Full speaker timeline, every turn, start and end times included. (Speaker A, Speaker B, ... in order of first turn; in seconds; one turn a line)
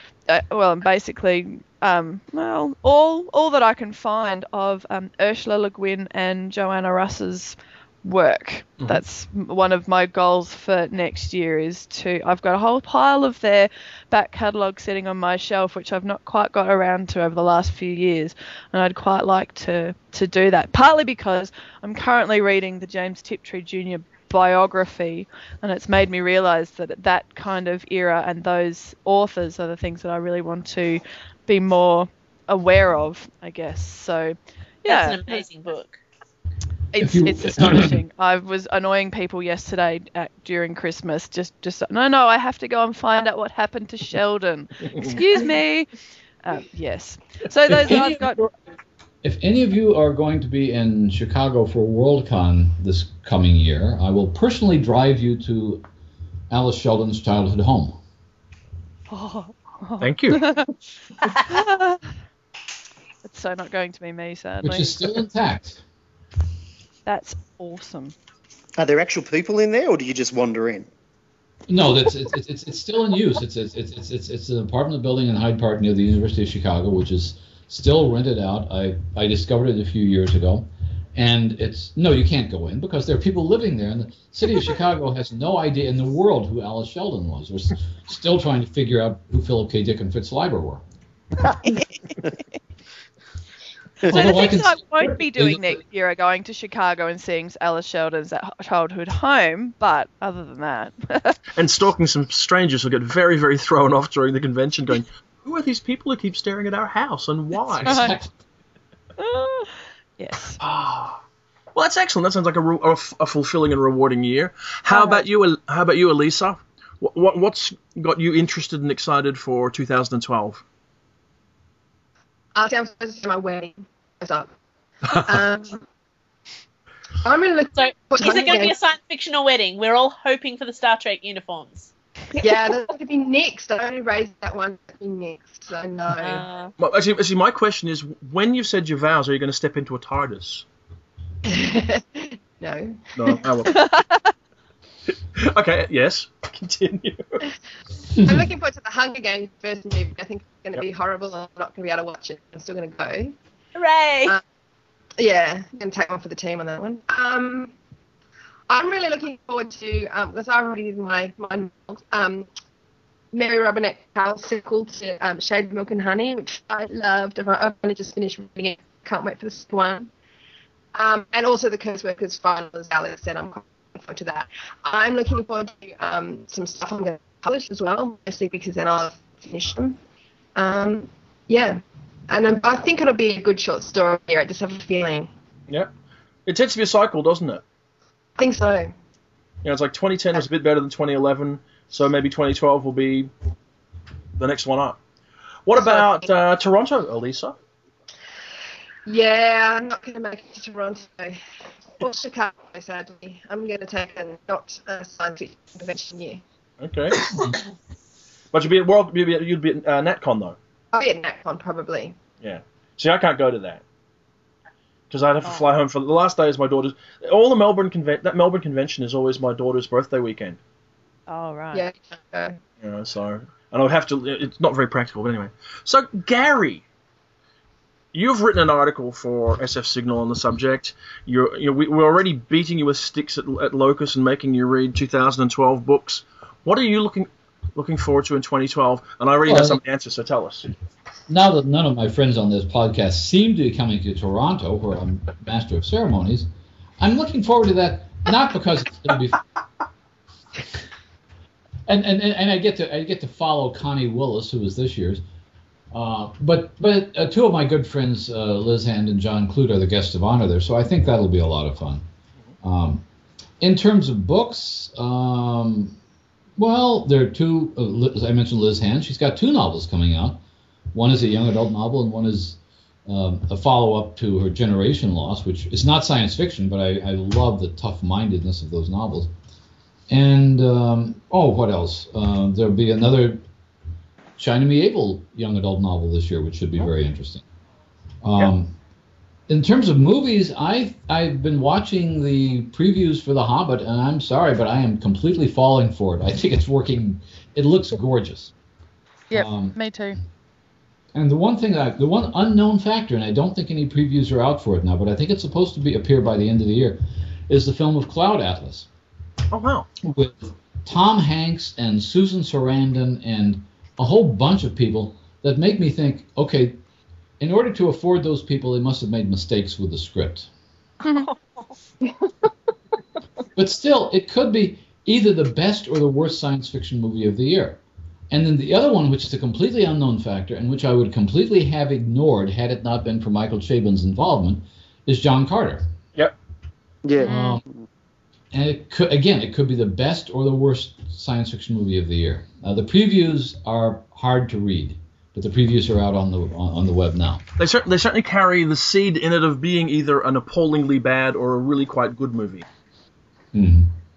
Speaker A: 0.3-35.4
Speaker B: 34.9-36.0
Speaker A: 36.9-45.9
Speaker C: 37.0-38.0
Speaker D: 44.9-45.2
Speaker A: 46.4-48.5
Speaker C: 47.7-48.5
Speaker C: 49.2-55.8
Speaker C: 56.5-58.0
Speaker A: 59.1-60.7
Speaker D: 60.0-60.4
Speaker B: 61.2-61.6
Speaker A: 61.5-62.1
Speaker A: 63.2-65.0
Speaker C: 64.6-65.8
Speaker A: 67.0-68.1
Speaker E: 68.8-70.9
Speaker C: 71.7-90.8
Speaker A: 94.0-101.4
Speaker C: 94.1-94.8
Speaker D: 101.5-108.0
Speaker C: 107.8-108.3
Speaker A: 107.8-108.2
Speaker A: 109.2-110.6
Speaker D: 110.6-111.2
Speaker D: 111.7-120.6
Speaker A: 114.9-115.2
Speaker F: 122.5-124.5
Speaker F: 125.1-125.8
Speaker F: 127.2-128.8
Speaker B: 127.8-131.9
Speaker F: 132.4-136.5
Speaker B: 136.2-136.7
Speaker D: 136.8-140.7
Speaker F: 141.5-143.4
Speaker D: 143.2-143.8
Speaker A: 143.7-144.3
Speaker D: 145.3-147.4
Speaker F: 148.2-153.3
Speaker B: 153.7-154.4
Speaker F: 155.2-157.7
Speaker F: 158.7-162.5
Speaker F: 163.3-170.1
Speaker F: 170.9-180.0
Speaker F: 180.6-185.3
Speaker D: 186.4-187.6
Speaker F: 188.4-188.9
Speaker D: 189.6-193.3
Speaker D: 194.3-195.0
Speaker D: 195.7-197.5
Speaker F: 199.1-201.4
Speaker F: 202.0-206.4
Speaker D: 206.8-207.3
Speaker D: 208.5-210.6
Speaker F: 210.9-212.2
Speaker D: 212.4-213.8
Speaker D: 215.1-220.6
Speaker A: 221.3-221.8
Speaker F: 221.7-222.6
Speaker D: 222.8-226.8
Speaker D: 228.1-240.7
Speaker C: 239.5-239.8
Speaker C: 241.3-249.4
Speaker C: 251.9-255.2
Speaker C: 255.9-262.0
Speaker C: 262.6-263.0
Speaker C: 263.6-266.0
Speaker C: 266.6-270.4
Speaker C: 270.9-279.3
Speaker C: 280.1-283.4
Speaker C: 284.4-287.4
Speaker C: 288.2-288.8
Speaker C: 289.5-298.5
Speaker A: 299.3-300.2
Speaker C: 299.3-299.8
Speaker C: 301.1-308.9
Speaker D: 309.5-309.9
Speaker C: 310.0-316.8
Speaker C: 317.4-320.5
Speaker A: 321.0-321.3
Speaker B: 321.1-321.7
Speaker C: 323.6-327.8
Speaker C: 328.3-335.9
Speaker E: 337.0-337.8
Speaker C: 337.2-337.6
Speaker A: 337.2-337.6
Speaker C: 338.5-347.4
Speaker D: 347.6-352.6
Speaker C: 353.5-353.9